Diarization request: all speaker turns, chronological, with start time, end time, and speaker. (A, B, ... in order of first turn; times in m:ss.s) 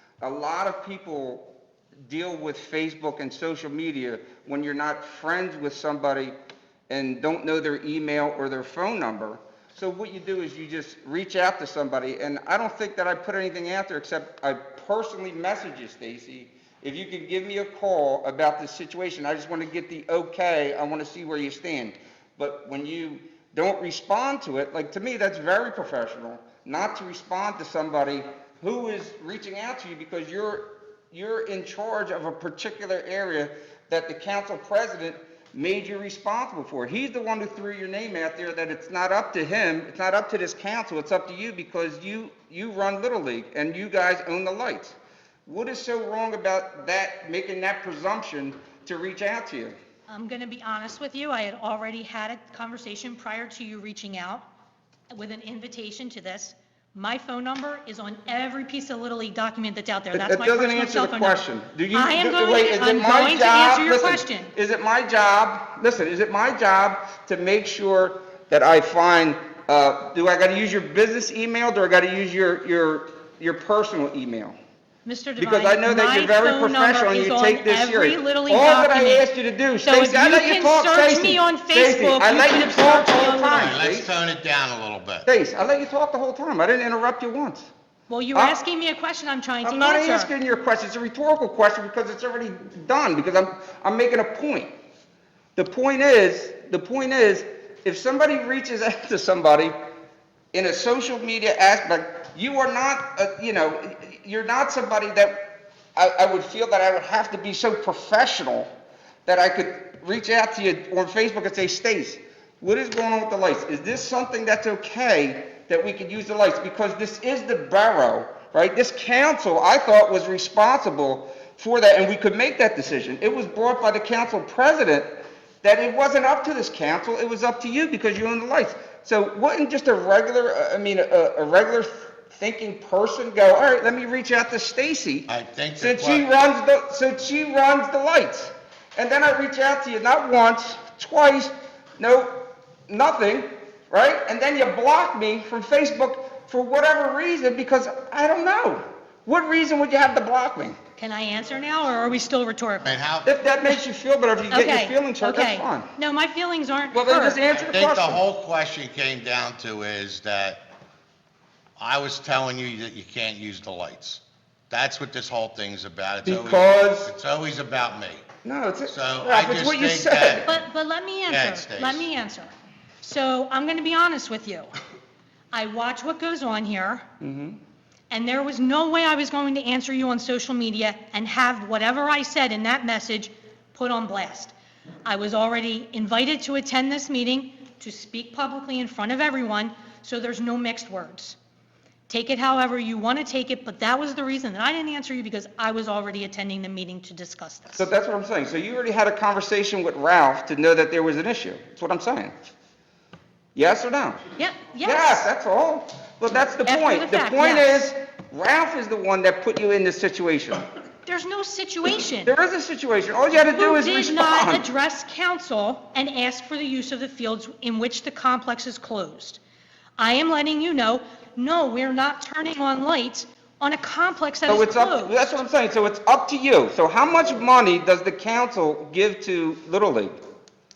0:00.2-0:01.5 A
0:02.1-0:06.4 A
0:06.9-0:49.8 A
0:50.1-0:54.5 B
0:55.1-1:04.5 B
1:00.1-1:14.6 A
1:15.0-1:19.3 B
1:15.4-1:24.1 A
1:19.8-1:23.8 B
1:23.5-1:25.3 C
1:25.3-1:27.7 A
1:28.1-1:30.3 B
1:29.6-1:34.7 A
1:35.6-1:39.7 A
1:40.5-1:48.7 A
1:49.3-2:30.8 A
2:15.3-2:16.3 C
2:31.0-2:33.0 B
2:32.8-2:33.3 C
2:33.2-2:35.9 A
2:34.5-2:37.4 B
2:36.9-2:38.2 A
2:37.5-2:40.6 C
2:41.8-2:48.2 C
2:46.2-2:47.1 A
2:48.4-2:50.5 A
2:48.9-2:50.5 C
2:50.4-2:54.7 B
2:51.3-2:52.1 C
2:55.5-2:57.0 B
2:57.2-2:57.6 A
2:58.1-3:11.4 B
3:12.1-3:17.9 B
3:17.8-3:22.4 A
3:23.6-3:24.2 A
3:24.4-3:25.3 B
3:24.8-3:30.6 A
3:26.6-3:27.9 B
3:31.0-3:32.4 B
3:32.2-3:34.7 A
3:33.4-3:39.4 B
3:40.0-3:45.4 B
3:44.5-3:50.2 A